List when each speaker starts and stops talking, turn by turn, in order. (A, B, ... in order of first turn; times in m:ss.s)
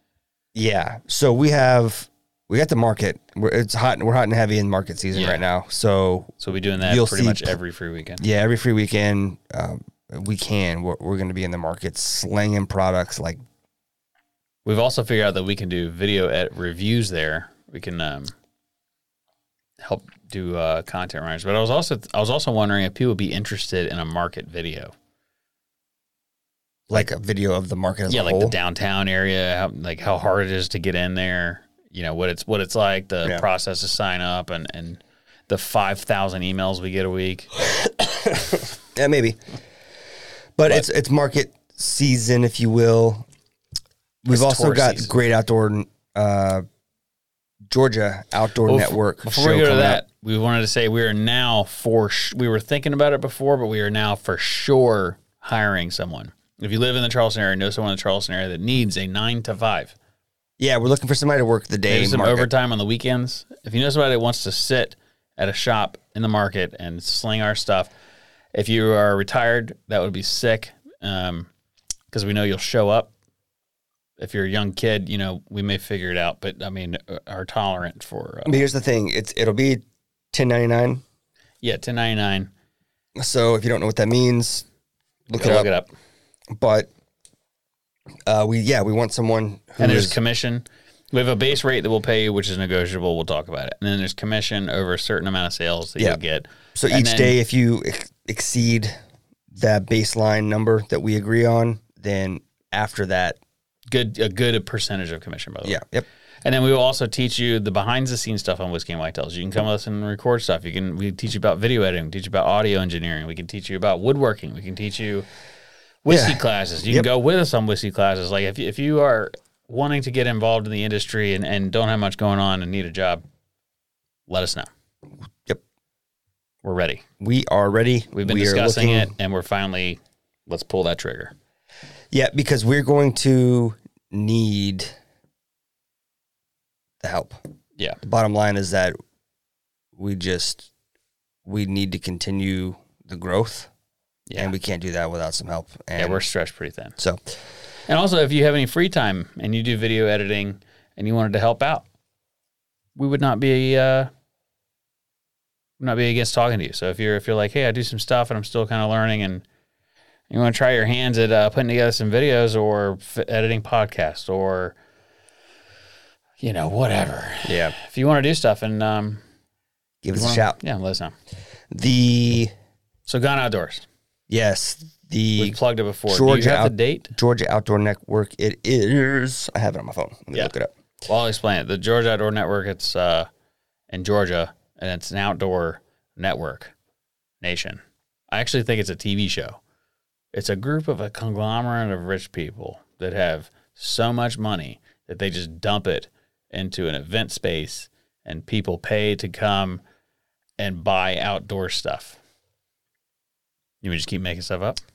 0:00.6-0:07.6 A
0:05.1-0:05.4 B
0:06.4-0:08.2 B
0:08.2-0:13.4 A
0:14.6-0:18.3 B
0:19.8-0:24.9 B
0:26.9-0:28.6 A
0:28.1-0:37.5 B
0:38.6-0:39.4 A
0:40.6-0:43.3 A
0:44.2-0:46.6 A
0:44.3-0:45.1 B
0:47.7-0:50.0 A
0:48.7-1:00.0 B
1:00.6-1:02.5 A
1:01.9-1:07.9 B
1:08.5-1:11.5 B
1:12.1-1:13.1 B
1:14.2-1:18.6 B
1:18.5-1:21.0 A
1:21.6-1:22.5 B
1:23.2-1:24.7 A
1:25.3-1:25.7 A
1:25.4-1:25.9 B
1:26.5-1:26.9 A
1:28.3-1:30.2 A
1:29.8-1:37.4 B
1:36.8-1:39.0 A
1:39.5-1:43.4 A
1:43.9-1:45.8 B
1:45.6-1:46.1 A
1:46.4-1:55.3 B
1:56.0-2:03.2 B
1:56.1-1:57.1 A
2:04.3-2:04.7 B
2:06.6-2:07.0 B
2:07.2-2:09.1 A
2:08.1-2:11.3 B
2:12.1-2:14.9 A
2:17.0-2:17.4 A
2:18.0-2:19.0 A
2:20.0-2:20.7 A
2:21.5-2:23.7 A
2:24.4-2:26.2 A
2:26.0-2:27.0 B
2:27.9-2:31.8 B
2:33.0-2:34.1 B
2:35.8-2:39.4 B
2:40.3-2:44.8 B
2:46.4-2:49.2 B
2:47.4-2:47.8 A
2:50.0-2:50.6 A
2:50.1-2:51.1 B
2:51.7-2:52.5 A
2:53.1-2:53.9 B
2:54.3-3:00.7 A
2:55.4-2:57.1 B
3:01.1-3:03.3 B
3:03.9-3:06.7 B
3:07.4-3:07.8 B
3:08.3-3:09.6 B
3:10.3-3:19.8 B
3:20.6-3:22.2 B
3:23.8-3:24.8 B